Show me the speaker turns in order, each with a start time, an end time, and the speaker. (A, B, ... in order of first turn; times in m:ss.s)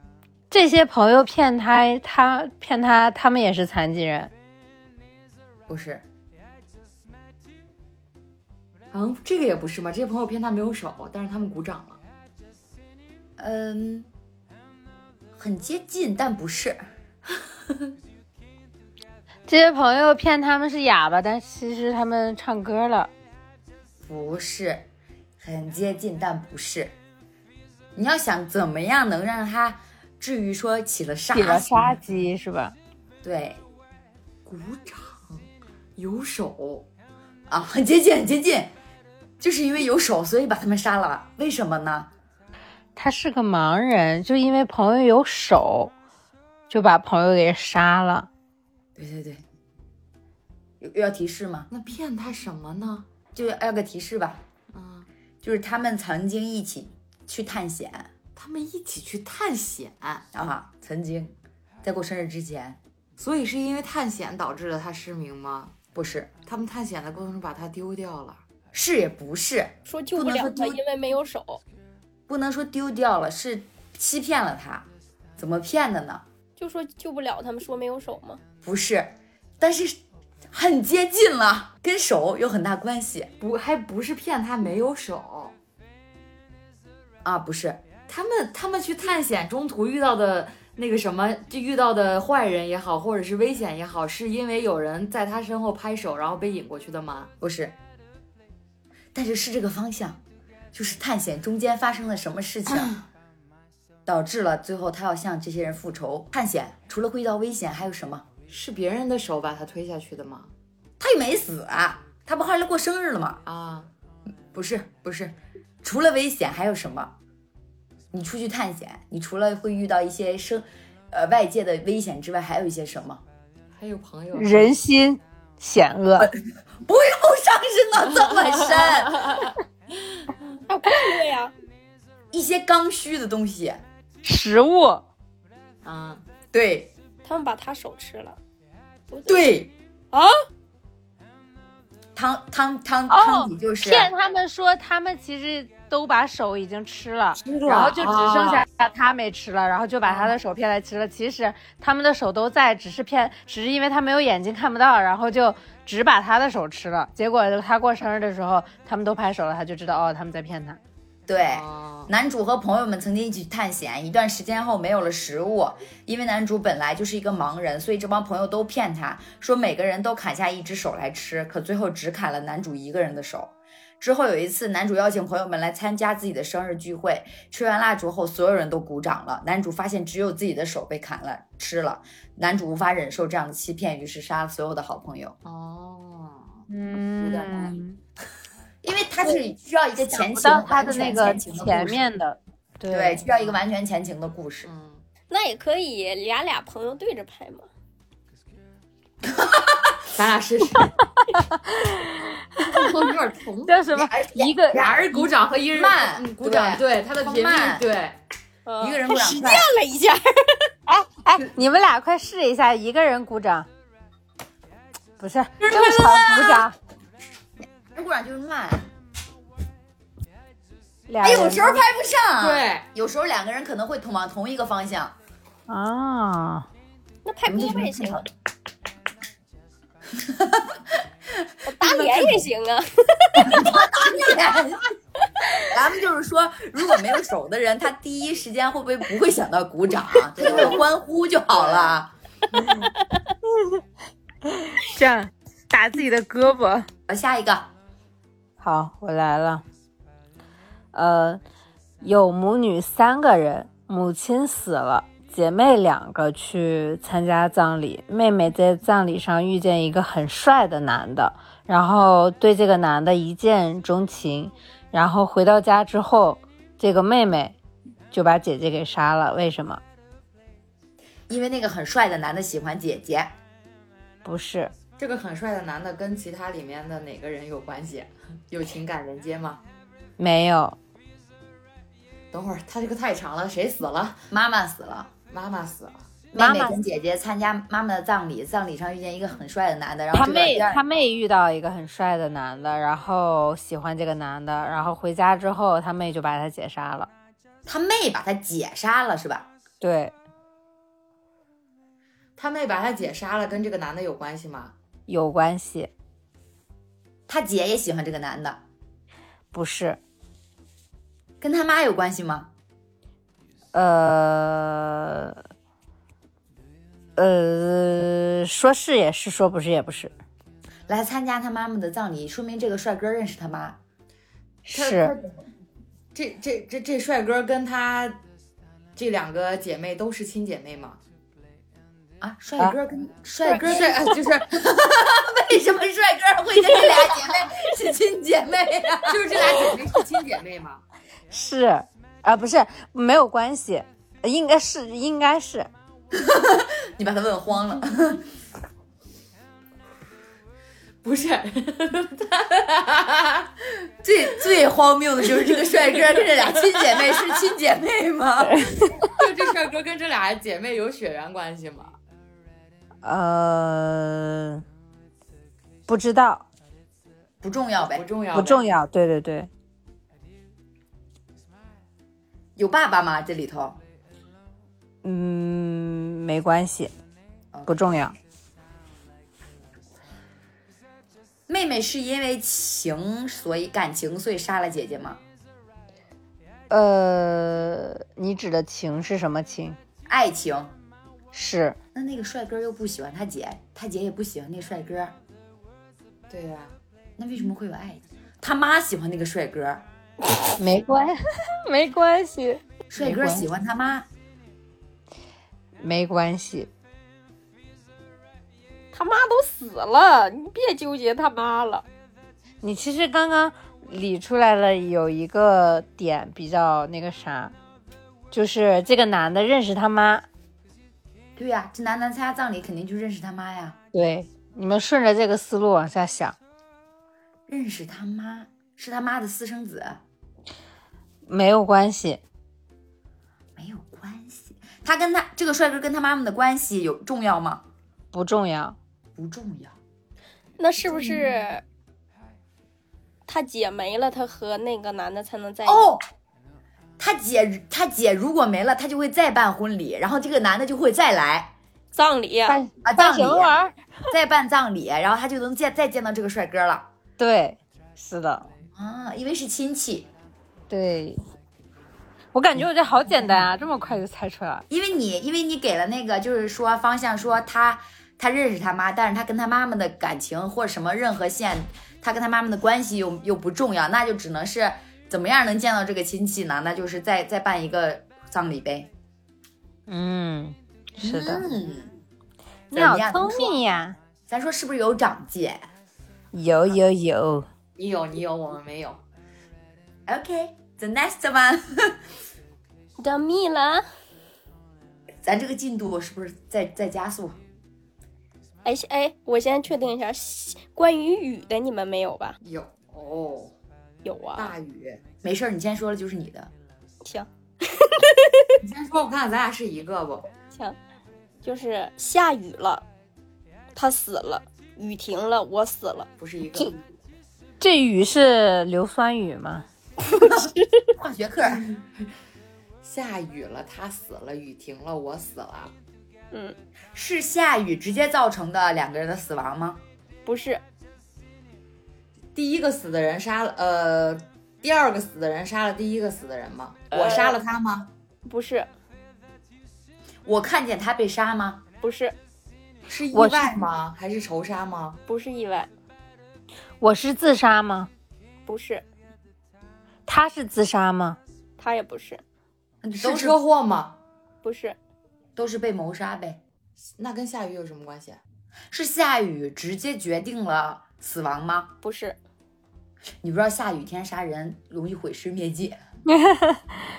0:00.5-0:04.3 A
0:05.7-0:06.0 B
0:08.9-0:12.0 C
0:13.4-0:14.1 B
0:15.4-0:16.8 B
0:19.5-0:23.1 A
0:24.0-0:24.9 B
0:25.4-0:27.0 B
0:28.0-0:32.0 B
0:31.3-0:32.8 A
0:33.2-0:33.6 B
0:34.5-0:36.9 C
0:37.5-0:38.7 B
0:39.4-0:42.1 B
0:43.0-0:45.9 A
0:46.7-0:48.3 A
0:49.0-0:49.4 B
0:50.8-0:51.7 B
0:51.7-0:53.1 C
0:53.4-0:54.4 B
0:54.7-0:55.1 C
0:55.4-0:58.1 B
0:58.4-1:00.3 C
1:00.3-1:02.8 B
1:03.2-1:05.8 C
1:05.9-1:06.3 B
1:06.5-1:08.4 C
1:08.7-1:10.8 B
1:09.9-1:11.6 D
1:12.3-1:14.9 B
1:15.4-1:16.2 B
1:16.6-1:18.4 D
1:18.6-1:20.0 B
1:20.5-1:23.3 B
1:23.4-1:25.6 C
1:27.2-1:27.8 B
1:28.1-1:37.3 C
1:37.4-1:37.8 B
1:39.1-1:40.2 B
1:40.7-1:43.0 B
1:44.1-1:48.3 B
1:48.5-1:50.5 C
1:51.0-1:53.4 B
1:53.5-1:53.9 C
1:54.5-1:57.2 B
1:58.1-2:03.2 B
2:03.8-2:04.7 C
2:04.4-2:06.3 A
2:06.2-2:09.4 B
2:10.2-2:10.6 C
2:10.7-2:11.5 D
2:12.3-2:13.8 B
2:14.2-2:15.0 A
2:15.8-2:16.2 C
2:16.5-2:16.9 B
2:17.2-2:18.4 D
2:19.1-2:19.4 D
2:19.3-2:19.7 B
2:22.2-2:24.1 B
2:23.1-2:40.8 A
2:27.4-2:28.6 C
2:30.1-2:30.3 C
2:41.3-3:05.4 B
2:41.4-2:42.1 C
3:05.4-3:06.7 C
3:06.7-3:08.0 A
3:07.2-3:07.8 C
3:08.8-3:12.1 B
3:10.0-3:13.2 A
3:12.9-3:14.7 B
3:14.6-3:15.0 C
3:15.3-3:17.7 D
3:19.2-3:20.0 B
3:20.1-3:20.9 C
3:21.4-3:22.9 A
3:22.7-3:23.8 C
3:23.7-3:24.8 A
3:23.9-3:27.8 B
3:24.7-3:28.2 C
3:28.7-3:30.7 D
3:28.8-3:29.7 B
3:30.9-3:33.7 A
3:35.2-3:36.8 A
3:35.6-3:36.6 C
3:37.9-3:38.9 B
3:41.1-3:41.8 A
3:41.2-3:45.2 B
3:42.4-3:42.9 C
3:45.7-3:46.7 A
3:47.2-3:48.2 D
3:47.5-3:48.3 B
3:50.1-3:52.5 B
3:51.6-3:53.7 D
3:53.4-3:54.9 B
3:55.7-4:02.1 B
4:00.4-4:00.9 C
4:01.5-4:02.0 C
4:04.6-4:06.9 A
4:07.1-4:07.7 B
4:08.6-4:09.6 A
4:10.9-4:11.4 A
4:12.0-4:27.6 A
4:28.1-4:29.8 A
4:31.3-4:33.3 B
4:34.2-4:34.7 A
4:35.0-4:39.6 C
4:40.2-4:40.8 A
4:42.3-4:44.3 C
4:44.3-4:45.1 B
4:45.3-4:46.1 C
4:46.3-4:50.8 B
4:46.4-4:46.8 A
4:50.1-4:57.1 A
4:57.7-4:59.5 B
4:59.8-5:00.1 A
5:02.4-5:04.7 C
5:05.1-5:05.9 A
5:07.3-5:08.6 B
5:09.5-5:10.0 A
5:11.4-5:12.5 B
5:13.7-5:15.4 A
5:17.2-5:20.1 A
5:20.9-5:23.8 B
5:24.7-5:25.1 A
5:24.7-5:25.2 C
5:26.1-5:28.2 C
5:29.0-5:31.0 C
5:32.2-5:39.6 B
5:33.5-5:34.6 C
5:39.1-5:40.8 C
5:41.3-5:45.7 A
5:46.1-5:48.3 B
5:51.0-5:53.5 C
5:54.0-5:58.7 B
5:55.4-5:57.5 C
5:58.4-5:59.0 A
5:59.1-6:02.0 C
6:03.0-6:04.6 A
6:05.9-6:06.5 A
6:07.4-6:08.1 B
6:07.8-6:08.7 C
6:08.3-6:09.5 A
6:12.6-6:13.8 B
6:15.0-6:16.9 A
6:17.5-6:18.0 B
6:17.7-6:18.2 A
6:21.5-6:25.2 B
6:26.7-6:29.8 A
6:30.1-6:30.7 B
6:31.3-6:31.8 A
6:31.9-6:35.2 B
6:36.3-6:36.8 C
6:37.2-6:39.8 B
6:40.6-6:43.5 A
6:42.9-6:44.1 B
6:45.8-6:46.7 A
6:48.9-6:51.8 D
6:52.6-6:57.5 A
6:58.3-7:00.3 A
7:01.4-7:03.8 B
7:03.9-7:06.4 A
7:07.5-7:10.0 B
7:11.3-7:12.2 A
7:13.6-7:17.6 B
7:18.1-7:18.8 A
7:19.2-7:19.8 B
7:20.6-7:21.6 D
7:20.9-7:21.2 B
7:23.3-7:25.9 D
7:25.7-7:26.0 B
7:27.0-7:31.6 B
7:31.9-7:32.6 D
7:32.5-7:33.8 A
7:32.8-7:33.5 B
7:34.1-7:36.9 B
7:37.2-7:38.5 A
7:38.8-7:40.1 B
7:40.7-7:41.2 A
7:42.3-7:44.6 A
7:44.7-7:58.9 B
7:59.9-8:01.4 A
8:01.0-8:02.0 B
8:02.7-8:04.0 A
8:02.7-8:03.6 B
8:04.3-8:05.7 B
8:06.3-8:07.5 A
8:07.8-8:09.0 C
8:10.1-8:12.0 B
8:13.0-8:13.8 D
8:15.2-8:17.4 B
8:18.6-8:22.4 D
8:22.4-8:23.5 C
8:24.0-8:24.5 D
8:24.4-8:25.0 C
8:25.2-8:26.5 B
8:27.0-8:28.6 D
8:28.6-8:30.3 C
8:31.4-8:32.8 D
8:33.8-8:36.1 D
8:36.2-8:36.8 C
8:37.6-8:39.7 A
8:40.1-8:40.9 D
8:40.3-8:41.7 B
8:41.5-8:41.8 C
8:42.8-8:45.7 C
8:46.9-8:49.8 B
8:50.3-8:50.6 D
8:52.4-8:57.9 C
8:56.9-8:57.4 D
8:58.2-8:58.7 D
9:00.2-9:01.6 B
9:01.8-9:02.2 D
9:02.9-9:05.0 C
9:03.1-9:03.6 A
9:05.1-9:05.7 D
9:06.8-9:07.9 A
9:08.5-9:08.8 D
9:10.1-9:11.2 A
9:11.6-9:12.2 D
9:12.8-9:13.4 B
9:13.0-9:14.0 C
9:14.4-9:14.8 D
9:15.4-9:16.4 B
9:17.0-9:18.2 C
9:18.7-9:21.7 B
9:21.8-9:22.2 D
9:23.2-9:25.8 B
9:26.1-9:26.6 A